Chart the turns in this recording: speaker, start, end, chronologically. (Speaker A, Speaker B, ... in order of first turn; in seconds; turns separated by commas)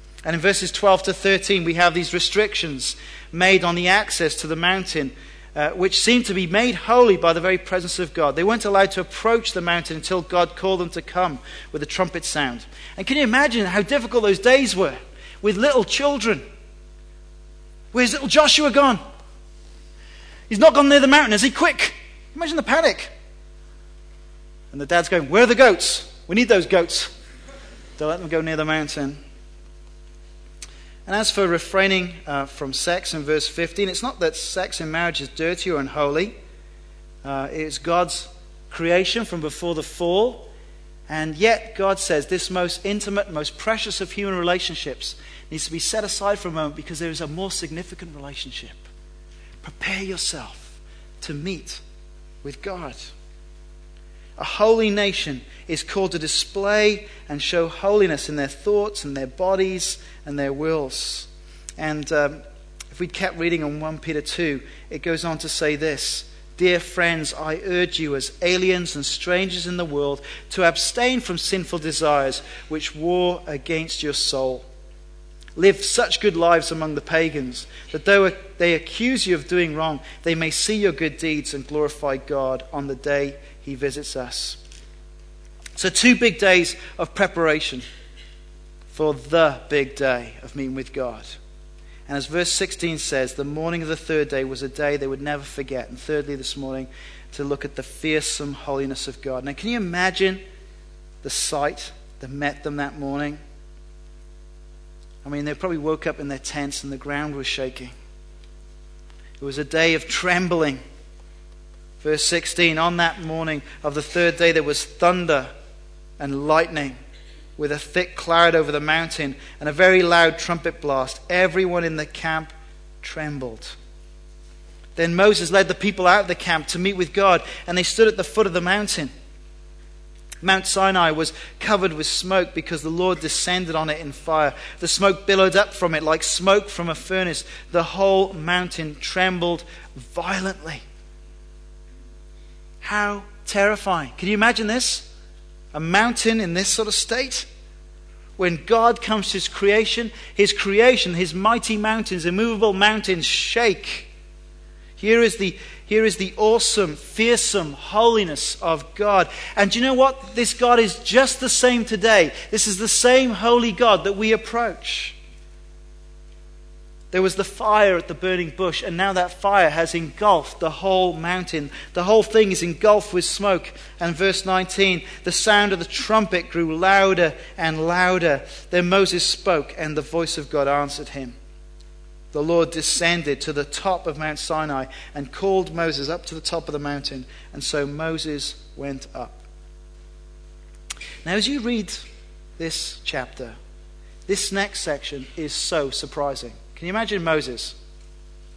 Speaker A: 0.2-16.4, Speaker A: 17.9-19.0, Speaker A: 20.5-23.1, Speaker A: 24.7-27.1, Speaker A: 28.0-29.2, Speaker A: 31.1-36.3, Speaker A: 37.2-40.5, Speaker A: 41.1-48.8, Speaker A: 49.6-51.8, Speaker A: 52.4-53.1, Speaker A: 54.4-74.7, Speaker A: 75.5-84.6, Speaker A: 85.8-87.8, Speaker A: 88.9-91.3, Speaker A: 92.1-100.4, Speaker A: 101.2-103.4, Speaker A: 105.2-107.9, Speaker A: 109.4-110.8, Speaker A: 112.0-115.5, Speaker A: 116.2-117.0, Speaker A: 117.6-123.7, Speaker A: 125.0-129.1, Speaker A: 130.4-140.8, Speaker A: 142.8-145.1, Speaker A: 145.7-147.5, Speaker A: 148.4-154.1, Speaker A: 155.0-165.2, Speaker A: 167.1-181.3, Speaker A: 182.3-189.4, Speaker A: 191.2-192.0, Speaker A: 192.6-193.6, Speaker A: 194.3-197.7